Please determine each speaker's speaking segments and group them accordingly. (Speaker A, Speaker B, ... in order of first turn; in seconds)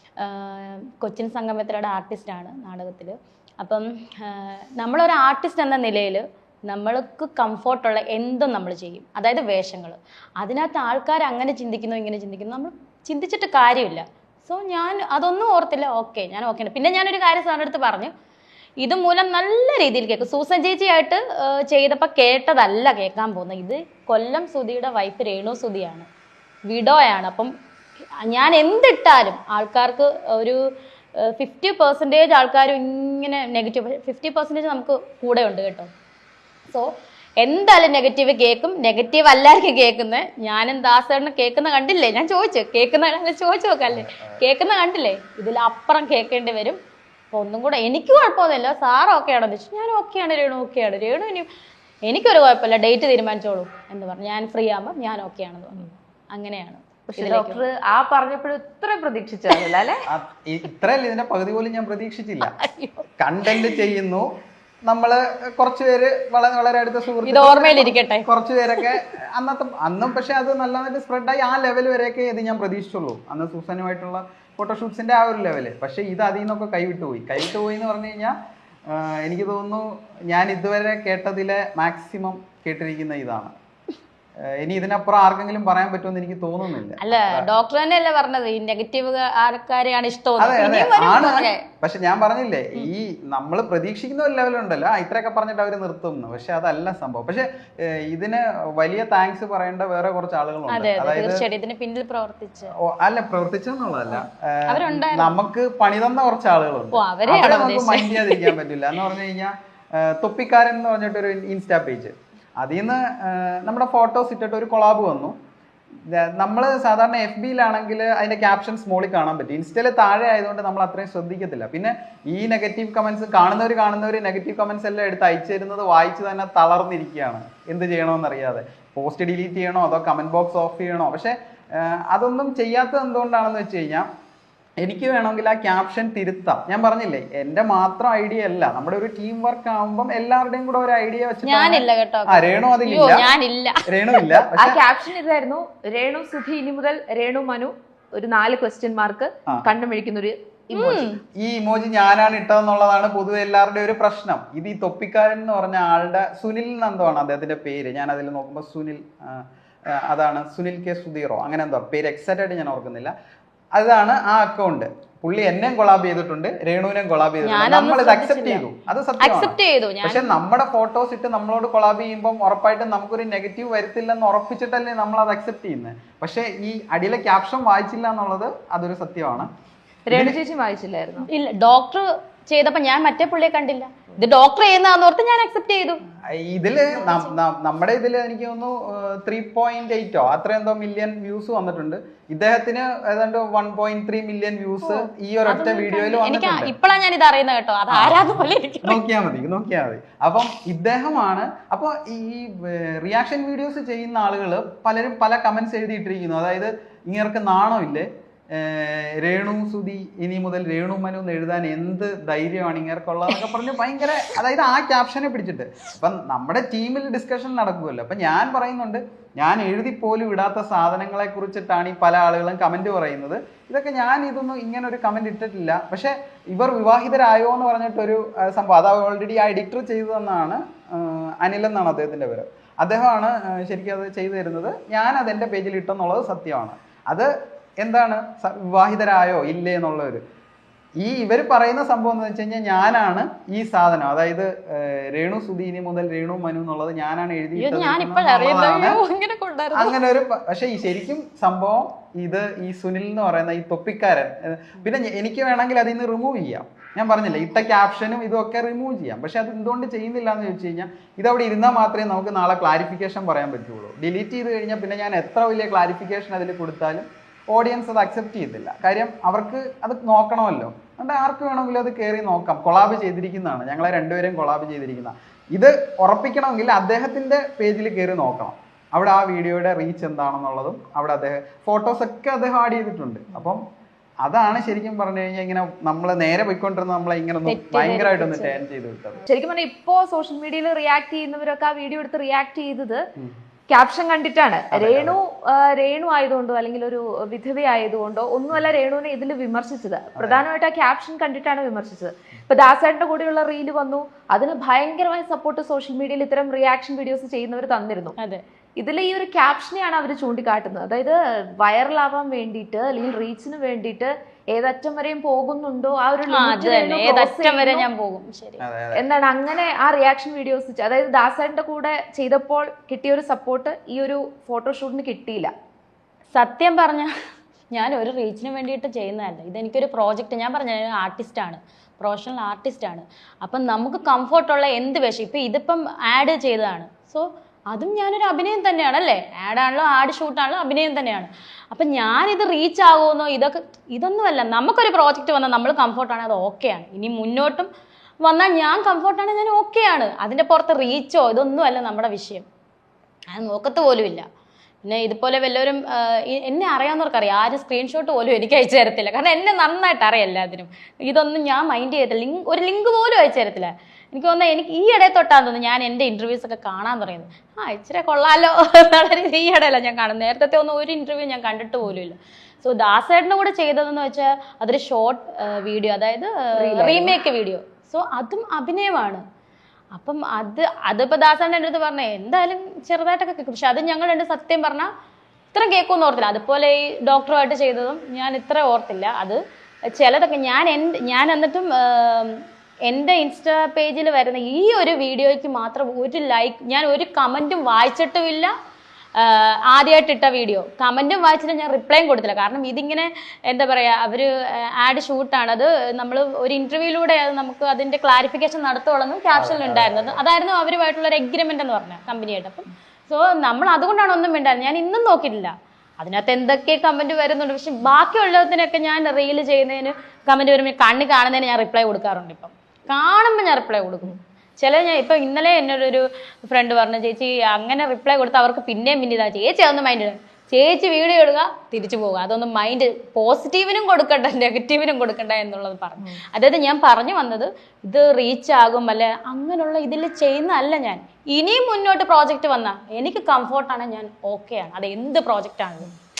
Speaker A: 0.2-18.1, 18.8-26.1, 26.7-27.5, 28.2-35.9, 36.7-46.8, 47.3-51.5, 52.0-57.6, 62.4-63.8, 67.2-68.3, 87.0-91.6, 100.7-102.7, 104.1-105.4, 106.9-108.5, 141.4-144.4, 150.7-151.2, 167.4-168.6, 169.2-170.3, 181.3-186.0, 194.8-199.0, 247.6-249.9, 287.4-288.6, 308.2-308.4, 316.3-318.6, 326.3-327.1, 327.7-347.7, 348.2-352.4, 353.3-354.3, 354.8-379.2, 379.9-384.9, 385.5-389.4, 389.9-398.5, 399.1-445.9
Speaker B: 43.9-44.4, 60.1-62.5, 63.2-64.3, 64.8-83.5, 84.4-87.5, 90.4-101.4, 102.7-115.3, 116.1-134.1, 134.8-143.3, 143.8-144.8, 151.3-163.1, 163.7-179.5, 180.1-180.4, 186.2-196.7, 197.9-240.2, 241.0-249.0, 249.7-283.6, 284.2-289.2, 294.7-295.1, 318.6-319.1, 409.3-410.2
Speaker C: 57.1-60.0, 144.5-151.1, 180.1-181.3, 289.3-293.0, 293.7-308.1, 308.8-317.9, 318.9-325.5, 376.5-377.1